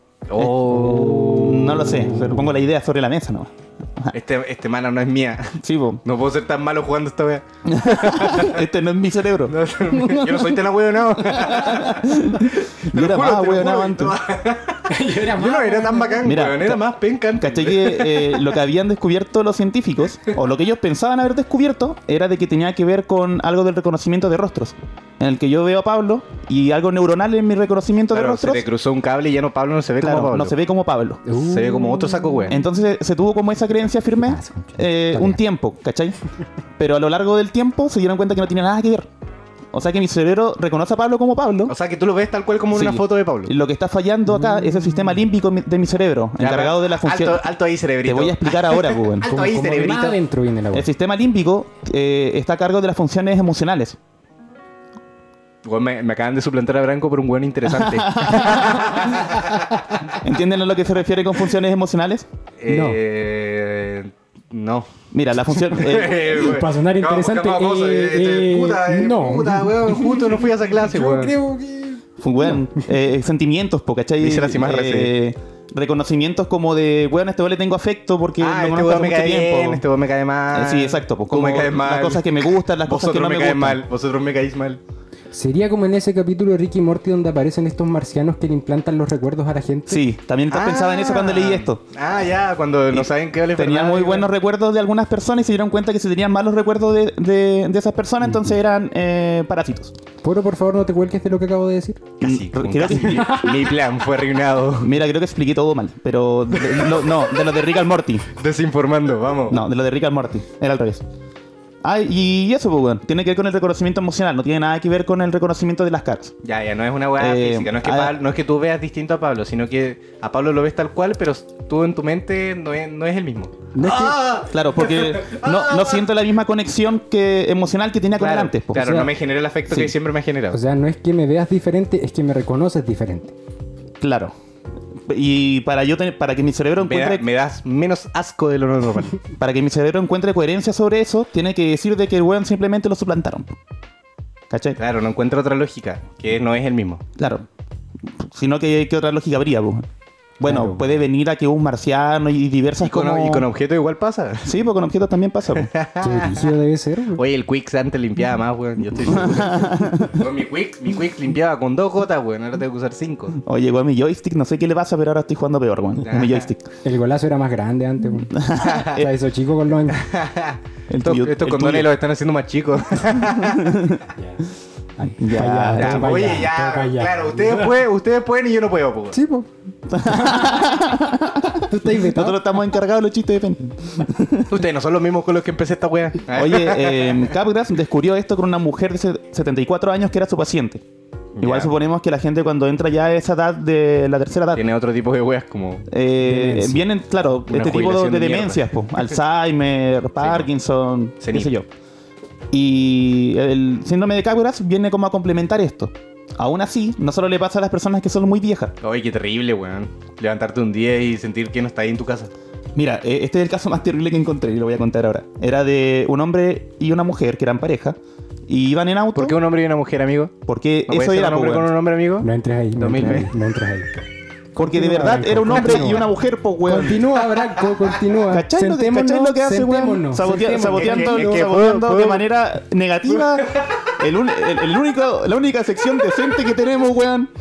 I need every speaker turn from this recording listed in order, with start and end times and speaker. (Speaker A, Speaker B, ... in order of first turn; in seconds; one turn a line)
Speaker A: 0.3-2.3
Speaker B: 0.4-4.1
Speaker A: 4.1-8.6
Speaker B: 5.6-6.0
Speaker B: 7.7-10.6
Speaker A: 9.5-18.4
Speaker B: 11.2-14.2
Speaker C: 14.9-16.2
Speaker B: 16.2-16.8
Speaker B: 17.4-28.6
Speaker A: 28.1-30.6
Speaker B: 30.0-31.2
Speaker C: 31.2-32.6
Speaker A: 31.4-32.6
Speaker B: 32.5-36.1
Speaker C: 34.2-35.4
Speaker B: 36.8-39.1
Speaker B: 39.7-41.7
Speaker A: 41.7-43.5
Speaker B: 42.7-47.4
Speaker C: 44.3-45.1
Speaker A: 46.4-50.1
Speaker B: 48.0-49.3
Speaker C: 49.3-50.9
Speaker B: 50.7-54.0
Speaker A: 55.6-60.1
Speaker B: 57.8-59.0
Speaker B: 60.2-62.2
Speaker A: 62.6-64.9
Speaker C: 62.7-63.0
Speaker B: 65.1-66.4
Speaker A: 65.5-71.3
Speaker C: 66.3-72.6
Speaker B: 72.2-79.8
Speaker A: 74.2-75.1
Speaker A: 78.4-84.8
Speaker B: 80.5-83.8
Speaker C: 85.3-90.0
Speaker B: 89.9-91.8
Speaker A: 90.5-94.3
Speaker B: 92.9-99.9
Speaker C: 98.2-98.5
Speaker C: 100.2-102.0
Speaker B: 102.2-103.7
Speaker A: 102.2-104.9
Speaker C: 102.9-103.5
Speaker B: 104.8-108.3
Speaker A: 106.7-107.0
Speaker A: 108.3-109.6
Speaker B: 109.5-111.0
Speaker B: 111.8-116.3
Speaker A: 116.4-126.0
Speaker B: 117.2-118.2
Speaker C: 123.7-124.2
Speaker B: 123.8-129.1
Speaker A: 128.2-130.6
Speaker C: 130.5-133.3
Speaker B: 134.0-134.3
Speaker B: 135.1-137.2
Speaker A: 136.8-139.2
Speaker B: 139.4-143.6
Speaker B: 144.5-144.8
Speaker A: 144.8-147.0
Speaker B: 147.2-147.4
Speaker B: 148.1-149.8
Speaker B: 150.4-153.5
Speaker C: 150.4-150.9
Speaker A: 152.8-154.5
Speaker B: 154.4-155.7
Speaker A: 155.5-156.5
Speaker C: 156.0-157.2
Speaker A: 157.2-163.4
Speaker B: 159.0-160.2
Speaker B: 163.4-166.7
Speaker A: 166.0-166.5
Speaker C: 166.8-170.1
Speaker B: 168.3-169.1
Speaker A: 168.6-169.0
Speaker A: 170.0-173.9
Speaker B: 170.9-171.9
Speaker B: 173.3-174.0
Speaker C: 174.2-174.4
Speaker C: 175.0-177.8
Speaker B: 175.2-176.4
Speaker A: 175.8-179.2
Speaker C: 179.1-179.5
Speaker B: 179.9-184.6
Speaker C: 180.0-180.8
Speaker C: 181.6-182.4
Speaker A: 184.5-187.3
Speaker B: 186.3-190.8
Speaker A: 191.3-191.7
Speaker B: 191.4-194.6
Speaker A: 194.5-195.8
Speaker B: 195.9-201.7
Speaker C: 196.2-196.8
Speaker A: 197.5-198.7
Speaker A: 200.2-200.5
Speaker A: 201.2-201.5
Speaker B: 202.5-208.7
Speaker A: 208.8-212.3
Speaker B: 212.7-219.4
Speaker A: 219.1-220.3
Speaker B: 220.4-221.7
Speaker A: 220.9-222.3
Speaker C: 222.2-223.9
Speaker A: 222.8-223.3
Speaker C: 224.6-226.1
Speaker B: 224.6-227.1
Speaker C: 226.6-231.4
Speaker B: 228.2-237.3
Speaker A: 230.7-232.2